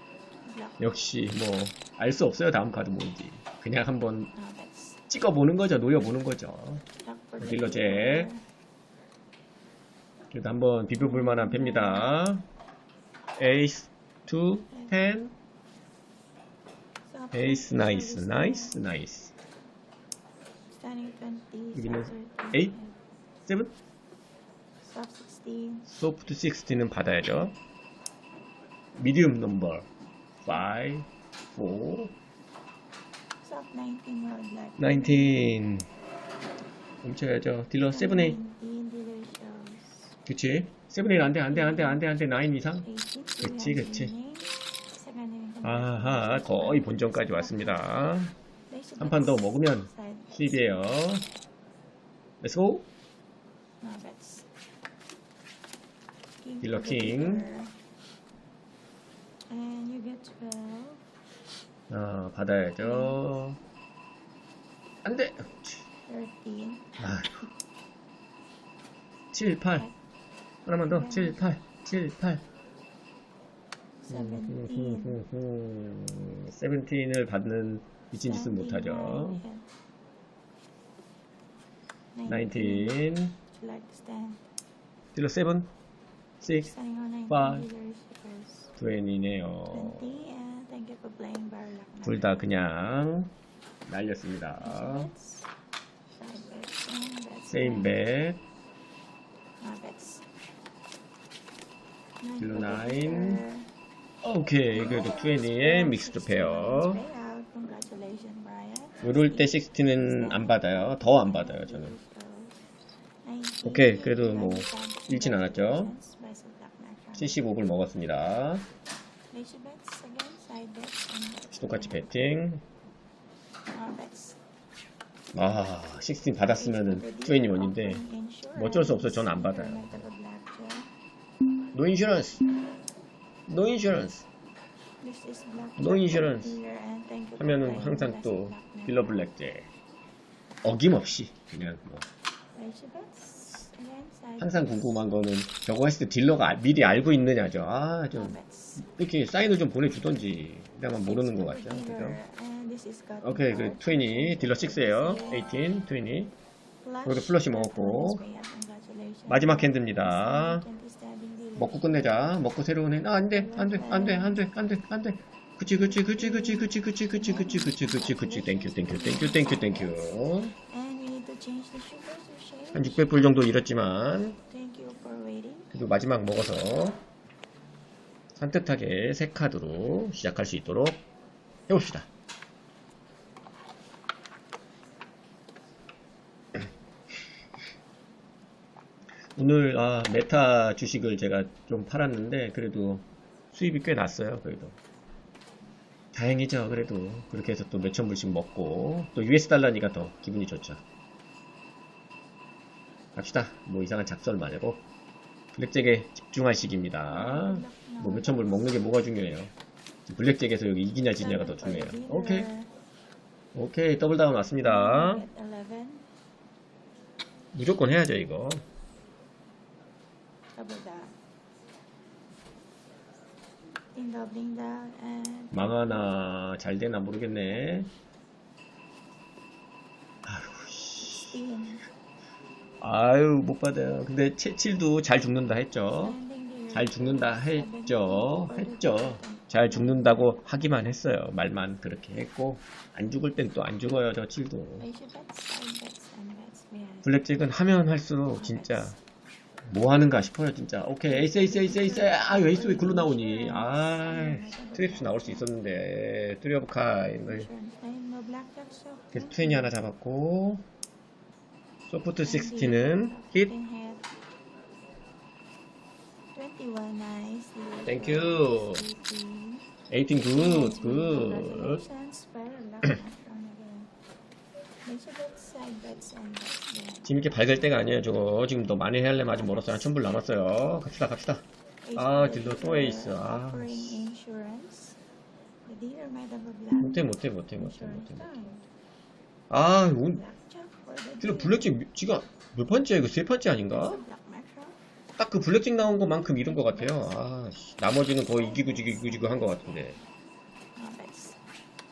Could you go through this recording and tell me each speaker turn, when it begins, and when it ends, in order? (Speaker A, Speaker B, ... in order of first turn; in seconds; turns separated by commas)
Speaker A: 0.4-0.9, Speaker B: 0.8-4.3, Speaker A: 4.3-5.0, Speaker B: 5.1-6.8, Speaker A: 7.0-8.4, Speaker B: 7.4-8.3, Speaker B: 10.3-12.4, Speaker A: 10.9-12.2, Speaker B: 13.4-15.3, Speaker A: 17.1-18.8, Speaker B: 17.3-19.3, Speaker A: 20.7-23.0, Speaker B: 21.7-22.8, Speaker B: 23.4-23.7, Speaker A: 24.8-25.9, Speaker B: 25.9-27.5, Speaker B: 29.0-29.9, Speaker B: 30.4-32.1, Speaker A: 33.4-35.6, Speaker B: 34.8-35.9, Speaker B: 37.0-38.4, Speaker A: 37.9-40.1, Speaker B: 40.2-42.9, Speaker A: 41.5-42.0, Speaker A: 42.8-48.0, Speaker B: 43.4-44.1, Speaker B: 45.6-48.3, Speaker A: 48.7-50.9, Speaker B: 49.0-51.3, Speaker B: 52.4-52.9, Speaker A: 53.8-54.5, Speaker A: 56.4-57.7, Speaker B: 56.6-57.5, Speaker A: 59.5-61.0, Speaker B: 61.9-63.6, Speaker A: 62.8-63.2, Speaker B: 65.0-65.8, Speaker A: 66.1-66.9, Speaker B: 67.0-67.5, Speaker B: 69.3-69.9, Speaker B: 70.7-72.4, Speaker A: 70.9-71.5, Speaker A: 74.0-75.2, Speaker B: 74.1-79.4, Speaker A: 78.2-79.7, Speaker A: 82.1-84.5, Speaker B: 82.3-83.4, Speaker B: 85.1-85.7, Speaker B: 86.4-86.7, Speaker A: 86.6-88.7, Speaker B: 87.3-87.7, Speaker B: 88.8-90.2, Speaker A: 89.7-92.5, Speaker B: 92.0-93.3, Speaker B: 93.8-95.1, Speaker A: 94.6-95.5, Speaker A: 96.1-98.0, Speaker B: 97.5-98.4, Speaker A: 99.6-100.2, Speaker A: 102.2-103.7, Speaker B: 102.4-103.4, Speaker B: 104.2-107.0, Speaker A: 104.7-112.6, Speaker B: 109.0-112.0, Speaker A: 113.2-117.5, Speaker B: 113.6-115.9, Speaker B: 117.2-118.7, Speaker A: 119.3-122.2, Speaker B: 121.5-122.6, Speaker A: 123.7-124.4, Speaker B: 125.3-130.1, Speaker A: 126.5-130.9, Speaker B: 131.7-132.4, Speaker B: 133.5-134.2, Speaker A: 135.0-139.3, Speaker B: 135.8-136.6, Speaker B: 137.4-139.7, Speaker B: 140.6-142.1, Speaker A: 142.5-145.0, Speaker B: 144.4-152.2, Speaker A: 148.1-148.8, Speaker A: 151.0-155.6, Speaker B: 153.2-156.3, Speaker A: 156.8-162.4, Speaker B: 157.1-158.2, Speaker B: 159.3-160.7, Speaker B: 161.6-170.5, Speaker A: 163.3-164.5, Speaker A: 165.7-173.4, Speaker B: 172.7-174.4, Speaker A: 174.5-175.7, Speaker B: 175.7-177.0, Speaker B: 178.3-181.0, Speaker B: 181.7-182.1, Speaker B: 189.3-194.8, Speaker B: 196.1-200.8, Speaker B: 203.2-204.8, Speaker B: 205.5-209.5, Speaker A: 207.1-208.8, Speaker B: 210.1-212.5, Speaker A: 211.1-212.7, Speaker B: 213.5-215.2, Speaker A: 214.6-216.1, Speaker B: 217.5-218.6, Speaker A: 220.5-221.2, Speaker A: 223.9-226.3, Speaker B: 225.5-227.9, Speaker B: 230.2-231.3, Speaker A: 231.0-231.8, Speaker B: 232.8-236.2, Speaker A: 235.9-241.0, Speaker B: 236.7-244.8, Speaker A: 244.8-247.1, Speaker B: 247.0-248.9, Speaker A: 248.3-249.0, Speaker B: 249.7-257.5, Speaker A: 251.0-255.5, Speaker A: 257.3-259.7, Speaker B: 259.1-260.6, Speaker B: 261.9-263.5, Speaker A: 262.2-264.1, Speaker A: 266.3-269.7, Speaker B: 267.9-268.8, Speaker B: 269.9-271.8, Speaker A: 270.2-273.9, Speaker A: 274.8-277.5, Speaker B: 277.0-281.4, Speaker A: 279.3-280.1, Speaker A: 281.8-285.0, Speaker B: 281.9-284.1, Speaker A: 285.6-288.6, Speaker B: 286.8-288.4, Speaker B: 289.5-290.2, Speaker A: 290.0-291.7, Speaker B: 291.2-294.0, Speaker A: 293.6-294.8, Speaker B: 295.2-300.0, Speaker A: 295.8-297.2, Speaker A: 298.1-300.0, Speaker A: 300.8-301.4